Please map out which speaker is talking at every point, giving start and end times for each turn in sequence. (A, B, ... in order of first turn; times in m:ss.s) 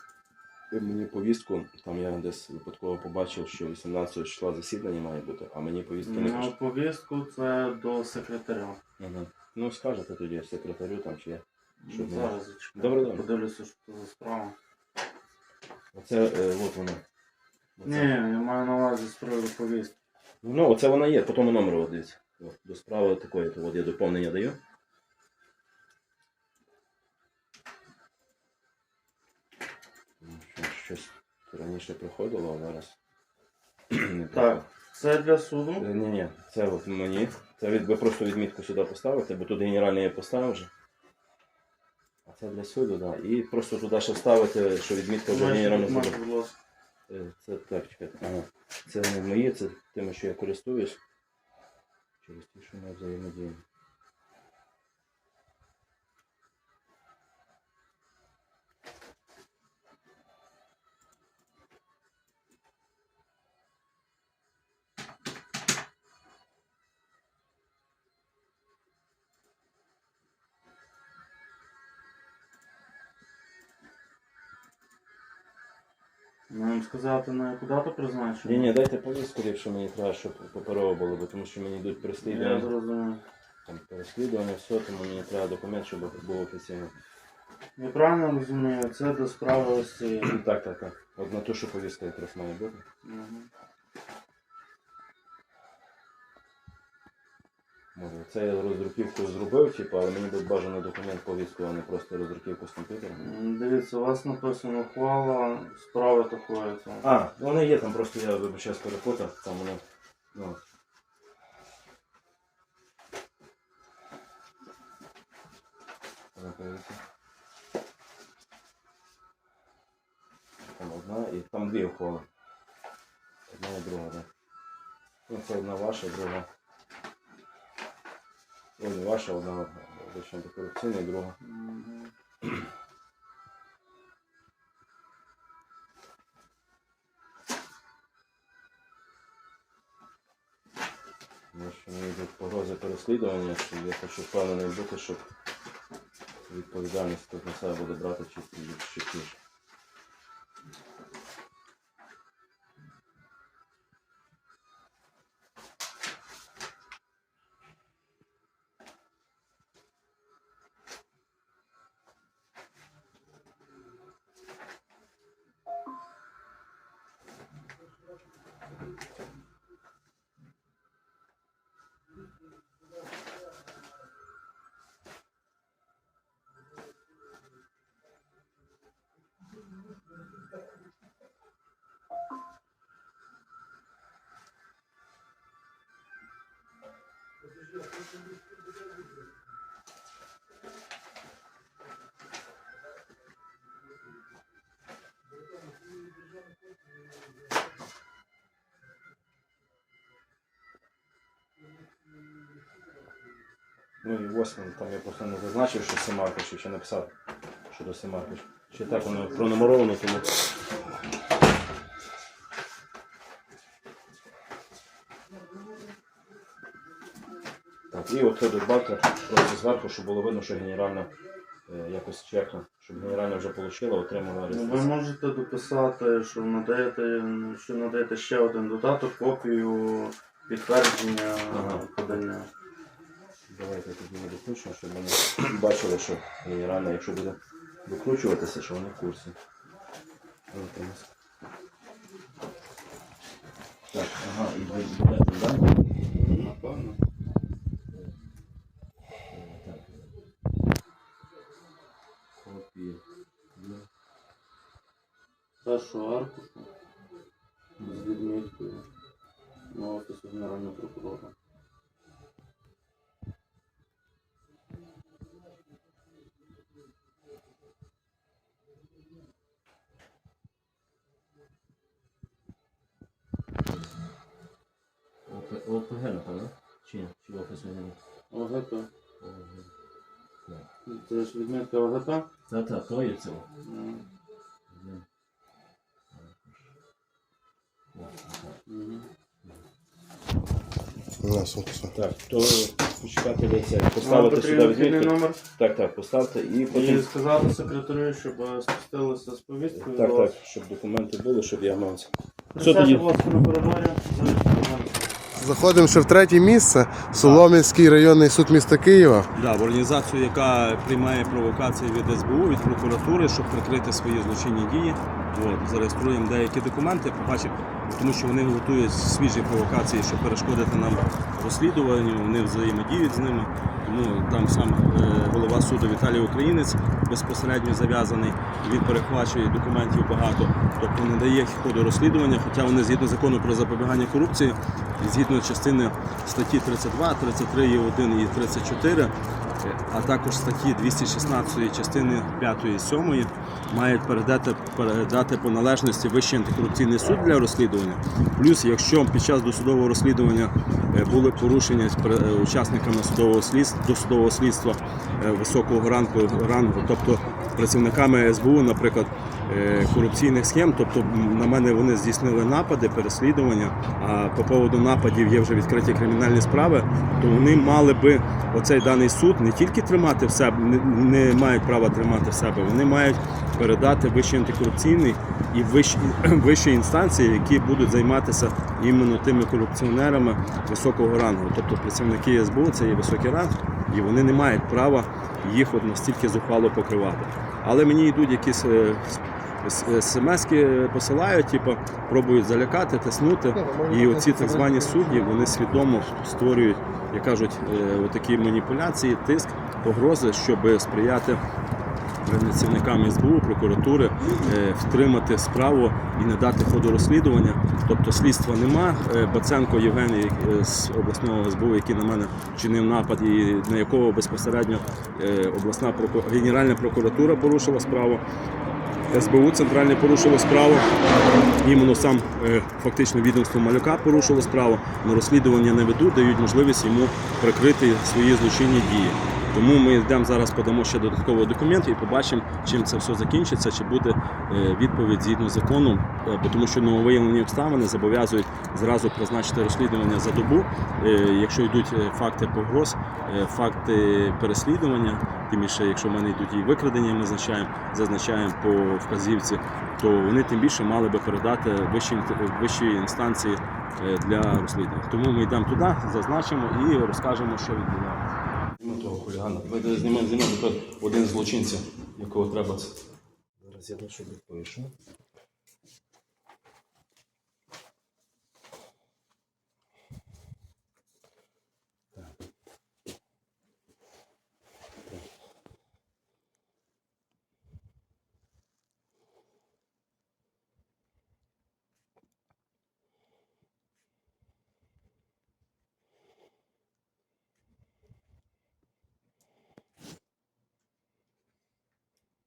0:00.7-0:06.5 A
0:06.0-0:08.8 B
0:09.0-0:13.2 A
0:11.8-0:14.5 B
0:15.9-0:17.0 A
0:17.8-0:18.1 A
0:17.8-0:19.9 B
0:20.4-0:24.6 A
0:30.2-0:32.9 A
0:33.9-0:34.6 A
0:34.3-0:35.9 B
0:35.8-0:40.7 A
0:42.2-0:46.2 A
0:45.3-0:46.5 B
0:47.1-0:51.0 A
0:52.2-0:53.6 A
1:16.5-1:18.7 B
1:18.4-1:22.7 A
1:22.2-1:23.2 B
1:23.6-1:26.9 A
1:27.8-1:30.4 B
1:30.2-1:32.8 A
1:33.0-1:33.5 B
1:37.9-1:43.2 A
1:43.2-1:47.1 B
1:47.0-1:49.8 A
1:50.3-1:50.6 A
1:56.3-1:57.0 A
2:00.6-2:02.2 A
2:03.5-2:04.3 A
2:05.3-2:06.5 A
2:08.8-2:11.4 A
2:11.4-2:12.1 B
2:21.5-2:25.2 A
2:26.5-2:29.4 A
3:24.0-3:27.1 A
3:27.7-3:30.5 A
3:37.9-3:41.1 A
3:41.7-3:44.9 A
3:44.5-3:52.5 B
3:51.5-3:52.1 A
3:53.5-3:59.4 A
4:00.5-4:01.1 A
4:03.9-4:05.8 A
4:06.1-4:07.0 B
4:09.3-4:10.2 A
4:12.4-4:13.0 A
4:13.5-4:13.9 A
4:15.6-4:16.7 B
4:17.8-4:18.9 B
4:19.7-4:21.3 B
4:35.2-4:38.0 A
4:38.3-4:38.9 B
4:39.2-4:39.7 A
4:40.8-4:42.3 B
4:42.5-4:43.5 A
4:43.6-4:44.0 B
4:44.7-4:45.0 A
4:46.1-4:46.7 A
4:47.9-4:48.6 A
4:48.7-4:49.1 B
4:51.2-4:51.9 C
4:51.9-4:57.1 A
4:54.0-4:55.4 B
4:56.7-5:00.3 B
4:59.7-5:03.1 A
5:02.5-5:05.2 B
5:05.4-5:09.3 C
5:07.2-5:07.4 A
5:09.3-6:41.4 A
6:33.5-6:35.3 C
6:42.2-6:58.2 A
6:59.1-7:00.9 A
7:01.6-7:43.0 A
7:43.6-7:44.9 A